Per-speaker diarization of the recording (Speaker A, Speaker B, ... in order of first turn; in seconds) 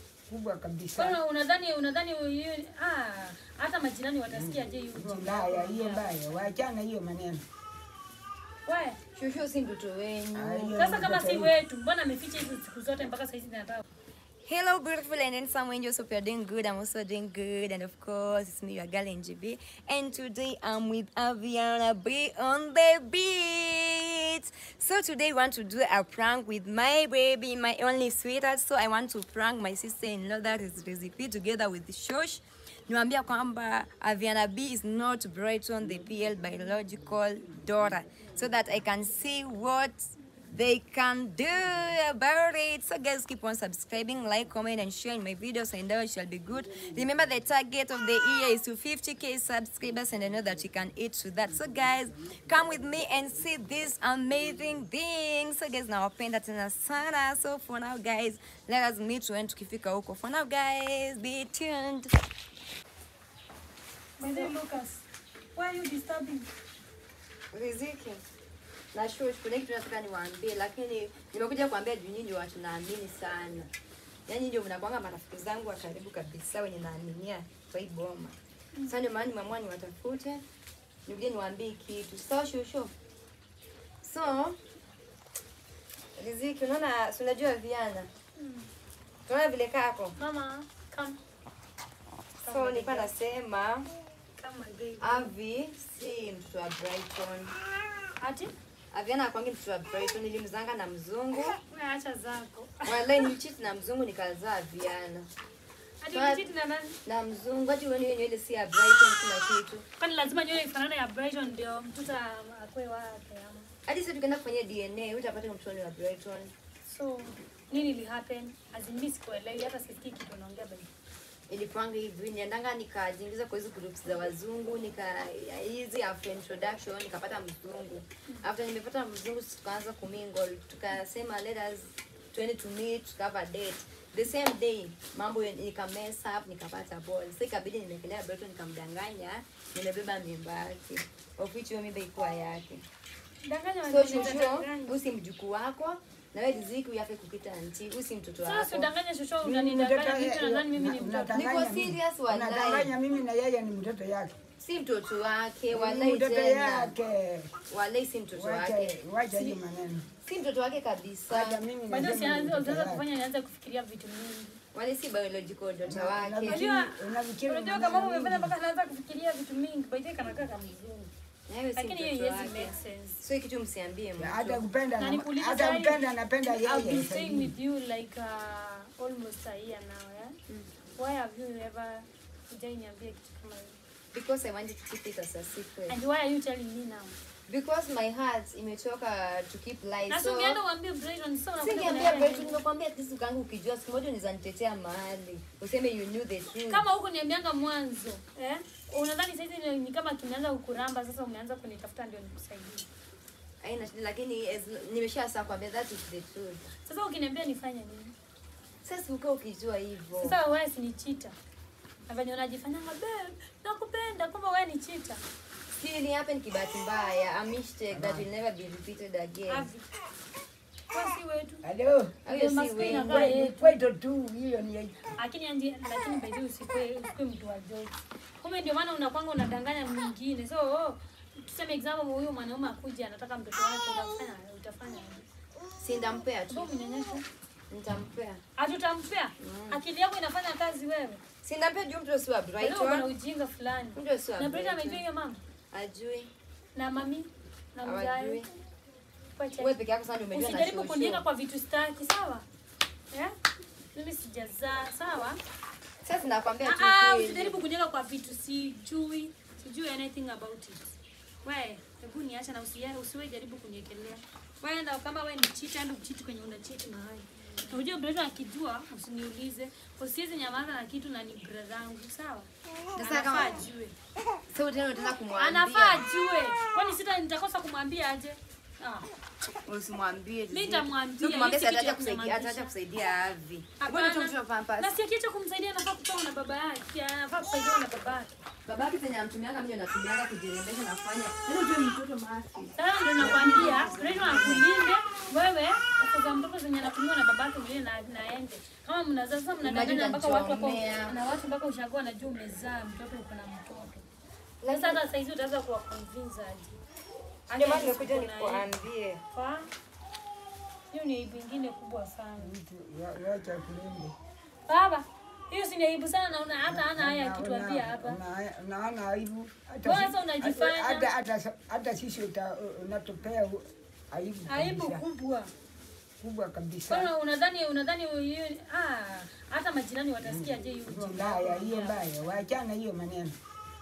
Speaker A: 0.3-1.2, 4.3-7.4, 10.3-11.5, 149.4-154.4, 155.7-157.5, 158.3-160.1, 161.3-163.0, 165.8-168.5, 174.2-177.5, 217.9-218.3, 221.6-222.2, 222.8-225.0, 312.4-314.1, 316.6-325.0, 326.2-327.1, 330.2-333.3
Speaker B: 0.9-6.2, 8.7-9.0, 10.8-13.8, 64.2-65.0, 65.5-66.5, 88.4-88.7, 90.2-91.2, 92.4-93.1, 94.4-95.3, 98.2-98.5, 101.7-103.3, 106.0-107.0, 110.0-113.7, 116.9-120.9, 143.4-145.0, 148.4-151.4, 161.9-164.6, 166.4-171.1, 171.8-173.2, 174.9-180.3, 180.9-183.8, 185.9-187.1, 190.1-192.6, 196.5-202.8, 206.8-208.1, 210.2-211.3, 212.1-215.2, 219.5-219.9, 220.9-221.6, 222.3-223.8, 225.2-235.2, 236.5-237.2, 238.6-241.2, 242.6-245.4, 246.7-248.4, 249.4-249.8, 250.3-252.4, 253.9-255.4, 256.6-273.9, 275.3-279.1, 280.5-282.7, 283.8-288.3, 292.7-304.0, 304.7-306.8, 307.5-308.7, 309.3-309.7, 310.9-312.5, 314.7-318.2, 319.8-321.1, 324.5-325.5, 326.9-332.0
Speaker C: 9.1-10.8, 14.4-62.1, 67.5-68.2, 68.9-73.7, 74.2-80.4, 81.0-82.9, 84.0-84.6, 86.2-88.1, 89.2-90.2, 92.4-93.9, 95.0-97.5, 98.9-101.6, 102.8-105.3, 106.1-106.5, 107.0-109.8, 113.8-116.5, 121.5-142.8, 143.8-148.9, 151.3-152.9, 154.6-156.9, 157.7-159.6, 160.2-161.6, 164.7-166.6, 171.5-174.6, 184.1-186.0, 187.5-190.6, 191.6-196.8, 203.6-206.7, 208.8-210.4, 215.7-219.7, 222.2-223.3, 235.8-236.7, 237.7-238.4, 239.4-239.8, 241.4-243.1, 243.9-245.0, 245.7-246.3, 247.8-248.5, 249.6-251.2, 256.0-257.6, 272.9-273.6, 274.5-276.0, 279.6-284.9, 288.6-294.7, 299.6-301.1, 304.6-305.0, 307.5-309.2